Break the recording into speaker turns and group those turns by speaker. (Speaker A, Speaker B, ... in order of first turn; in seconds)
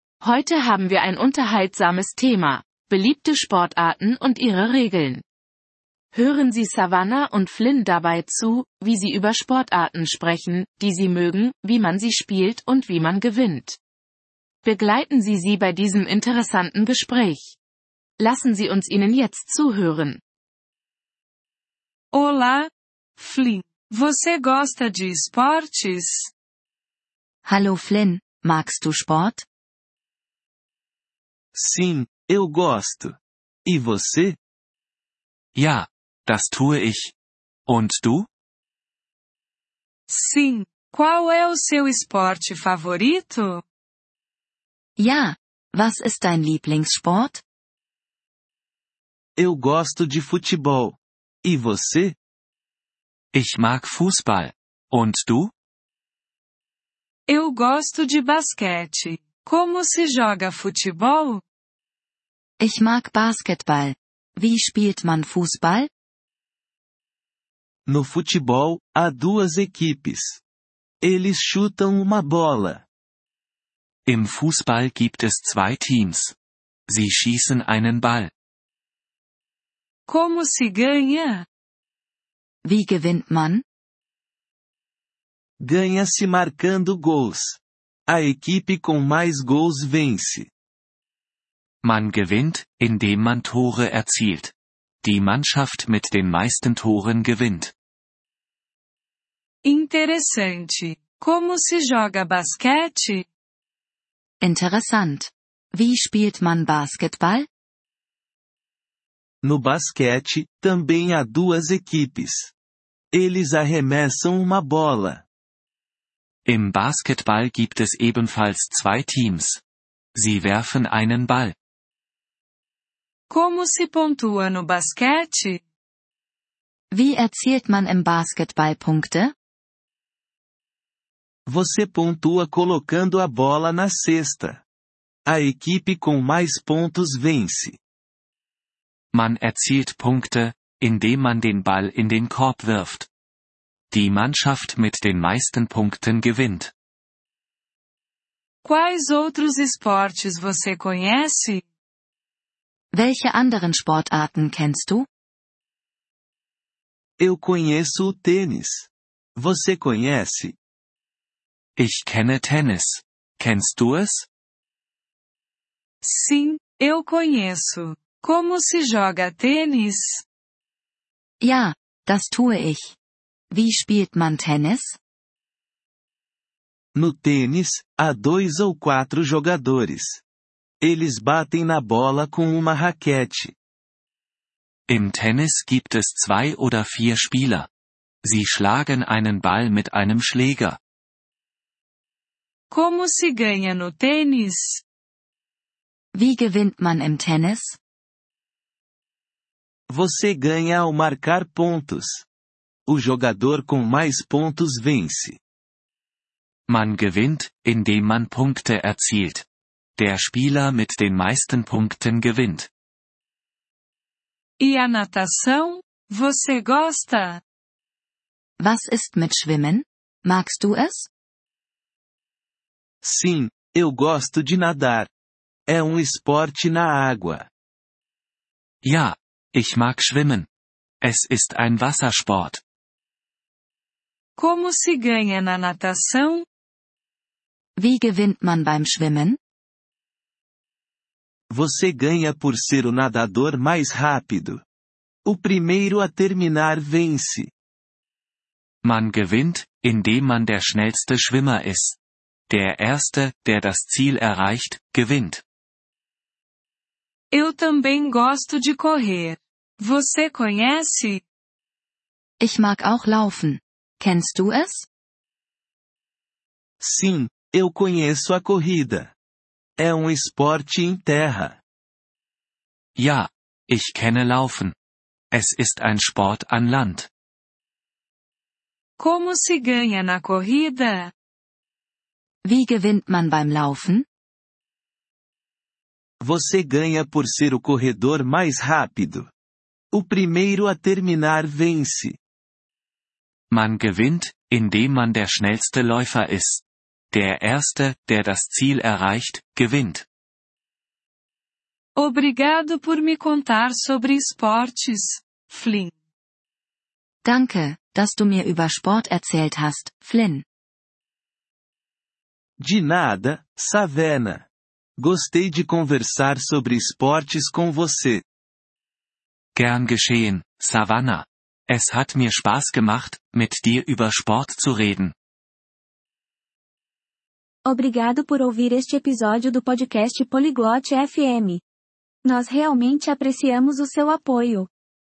Speaker A: 0.2-5.2, 6.1-13.8, 14.6-17.6, 18.2-20.2
Speaker B: 22.1-26.3, 40.1-43.6, 57.3-61.4, 80.1-81.5, 99.6-103.2, 123.3-125.6, 148.6-151.6, 166.0-170.2, 192.7-194.8, 214.6-217.4, 234.3-236.4, 257.3-261.2, 279.0-281.1, 301.9-305.9
Speaker C: 27.4-29.4, 45.0-47.4, 62.6-65.9, 82.6-83.6, 104.4-107.5, 126.9-129.3, 152.9-155.1, 171.4-172.9, 173.5-175.0, 196.1-197.8, 218.6-221.1, 237.8-239.4, 262.4-264.9, 282.4-284.1, 307.2-310.4
Speaker D: 31.5-34.4, 49.4-52.1, 67.8-70.4, 71.0-72.8, 85.6-90.5, 109.4-112.5, 113.1-115.2, 131.5-134.6, 135.2-137.8, 157.2-160.6, 176.9-180.2, 180.8-183.5, 199.9-202.2, 202.9-205.4, 223.0-225.1, 225.7-227.5, 241.5-244.6, 245.2-247.5, 266.8-269.1, 269.8-271.6, 286.2-289.3, 289.9-292.2, 312.6-314.4, 315.0-318.2
Speaker E: 35.5-37.1, 37.7-38.3, 53.3-55.5, 74.0-76.3, 76.9-78.3, 91.8-97.7, 116.4-119.6, 120.1-121.5, 139.1-143.1, 143.9-146.7, 161.8-164.3, 184.9-187.7, 188.2-190.8, 206.7-209.4, 210.0-212.7, 228.8-230.5, 231.0-232.6, 248.8-255.4, 272.9-274.7, 275.3-277.1, 293.5-300.1, 319.5-325.1
Speaker F: 327.6-331.6, 332.2-334.7